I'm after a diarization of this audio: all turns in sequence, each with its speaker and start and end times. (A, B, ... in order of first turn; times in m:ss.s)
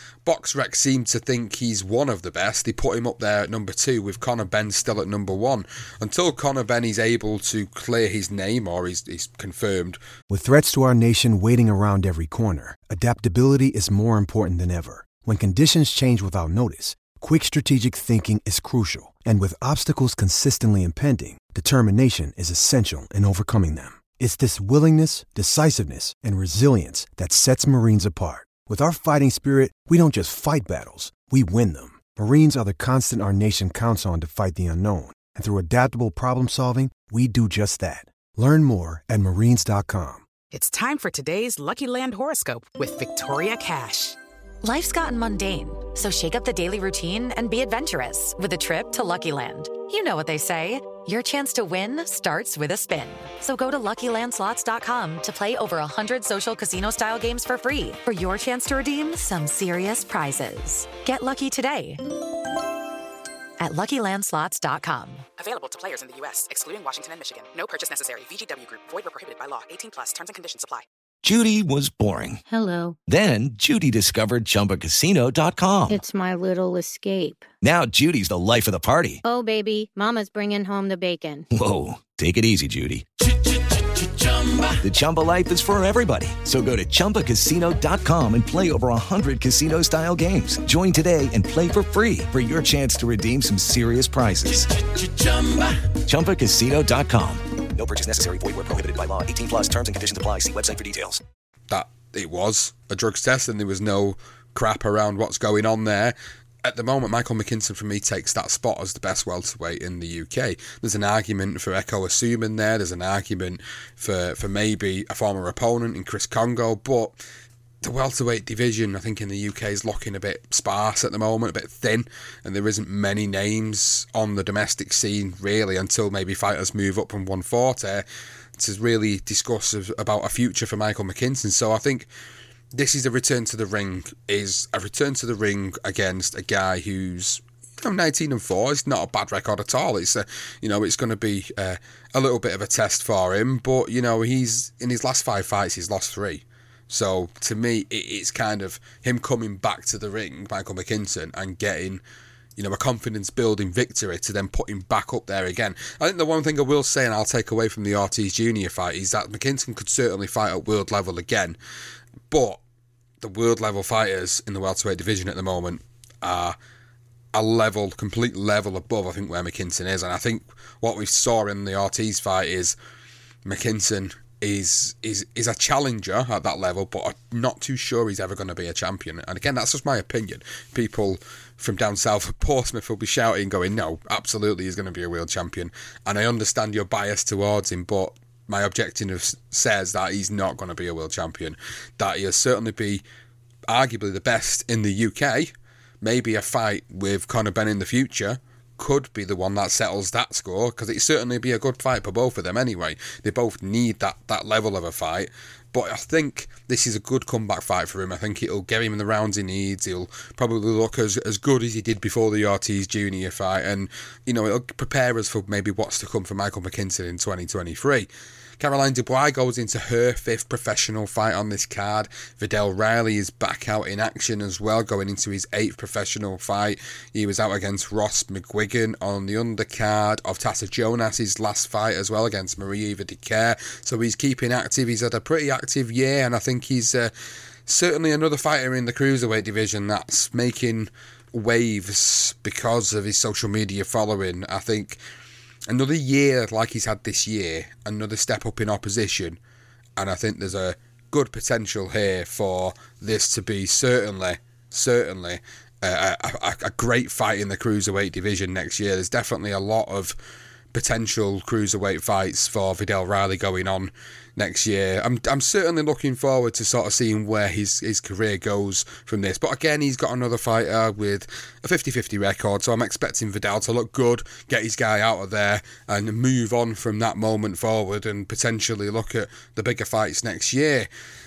0:00.2-0:10.0 A
0:10.3-0:40.3 B
0:40.5-0:44.2 C
0:44.6-1:02.0 D
1:03.6-1:05.2 D
1:05.4-1:10.8 C
1:11.2-1:12.4 E
1:12.5-1:13.0 F
1:13.1-1:16.0 E
1:15.9-1:17.5 F
1:17.6-1:19.2 E
1:19.2-1:21.4 F
1:21.5-1:37.6 E
1:37.7-1:41.2 G
1:41.7-1:57.2 A
1:57.8-2:08.0 A
2:08.6-2:12.1 A
2:12.7-2:32.0 A
2:32.6-2:41.6 A
2:42.3-2:42.6 A
2:43.2-2:46.6 A
2:47.3-2:52.8 A
2:53.4-3:13.0 A
3:13.7-3:38.1 A
3:38.6-3:57.1 A
3:57.7-4:05.0 A
4:05.7-4:09.4 A
4:10.0-4:20.2 A
4:20.7-4:40.9 A